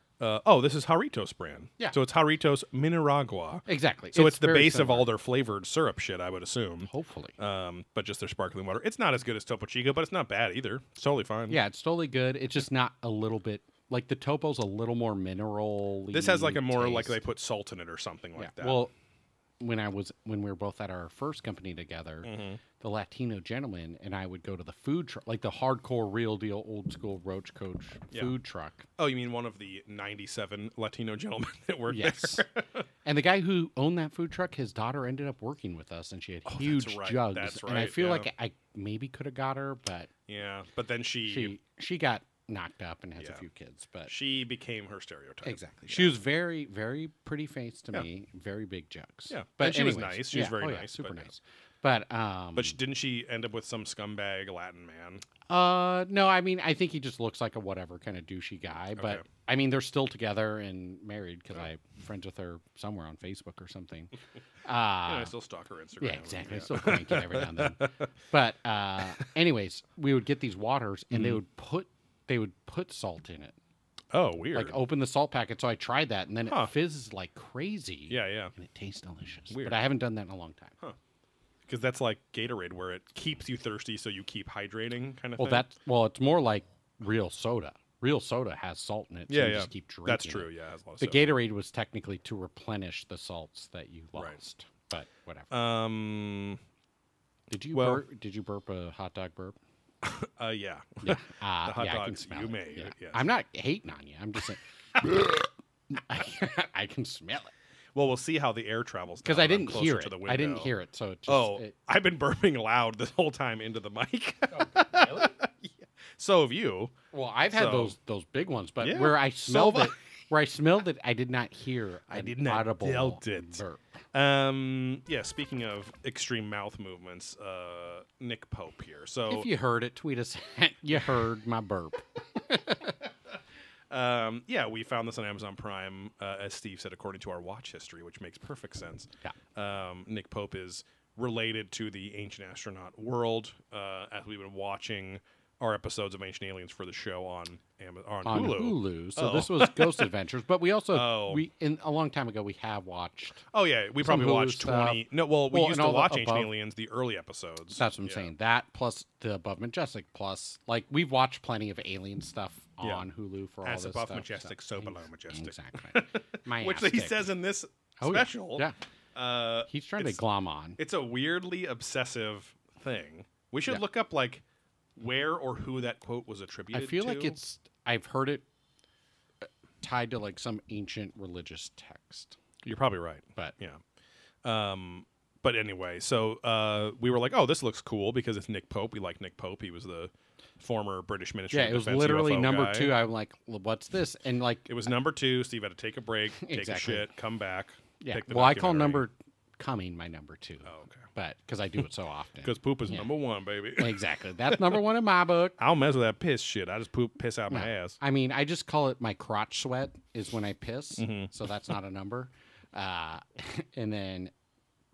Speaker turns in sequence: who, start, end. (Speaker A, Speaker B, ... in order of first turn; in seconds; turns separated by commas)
Speaker A: 0.2-11.6, Speaker B: 3.7-5.1, Speaker B: 6.9-7.4, Speaker B: 11.5-17.2, Speaker A: 16.1-18.9, Speaker B: 18.4-18.9, Speaker B: 19.6-28.9, Speaker A: 22.2-22.6, Speaker A: 29.0-32.8, Speaker B: 31.9-32.5, Speaker B: 33.0-40.1, Speaker A: 36.5-38.3, Speaker A: 40.3-41.6, Speaker B: 41.3-44.1, Speaker A: 44.1-46.2, Speaker B: 45.4-52.8, Speaker A: 49.3-51.3, Speaker A: 52.6-55.2, Speaker B: 55.5-64.1, Speaker A: 59.0-59.2, Speaker B: 64.7-65.3, Speaker A: 65.0-68.1, Speaker B: 66.0-73.6, Speaker A: 71.1-71.4, Speaker A: 74.1-74.8, Speaker B: 74.5-80.8, Speaker A: 76.5-76.7, Speaker A: 78.1-78.5, Speaker A: 79.5-79.8, Speaker A: 81.7-85.7, Speaker B: 85.4-90.5, Speaker A: 89.3-91.3, Speaker B: 91.0-95.5, Speaker A: 95.5-96.6, Speaker B: 97.5-99.6, Speaker A: 97.7-98.0, Speaker A: 100.0-103.3, Speaker B: 101.0-107.5, Speaker A: 108.0-110.7, Speaker B: 109.2-111.8, Speaker A: 111.3-116.9, Speaker B: 114.5-115.3, Speaker B: 117.1-123.9, Speaker A: 117.5-118.0, Speaker A: 118.8-120.0, Speaker A: 122.1-129.5, Speaker B: 129.3-132.9, Speaker A: 133.9-150.1, Speaker B: 148.3-153.4, Speaker A: 150.9-151.4, Speaker A: 153.5-158.3, Speaker B: 154.0-156.5, Speaker B: 157.8-167.3, Speaker A: 162.8-163.1, Speaker A: 163.6-170.2, Speaker B: 168.0-168.7, Speaker B: 169.7-170.8, Speaker A: 170.8-174.4, Speaker A: 175.0-177.4, Speaker B: 176.7-178.4, Speaker B: 179.4-182.4, Speaker A: 182.6-183.8, Speaker A: 184.4-193.0, Speaker B: 191.5-194.9, Speaker A: 194.7-199.0, Speaker B: 196.4-197.1, Speaker B: 198.0-203.1, Speaker A: 200.7-201.1, Speaker A: 202.4-204.8, Speaker B: 203.8-205.6, Speaker A: 205.6-208.0, Speaker B: 207.5-214.3, Speaker A: 211.0-211.3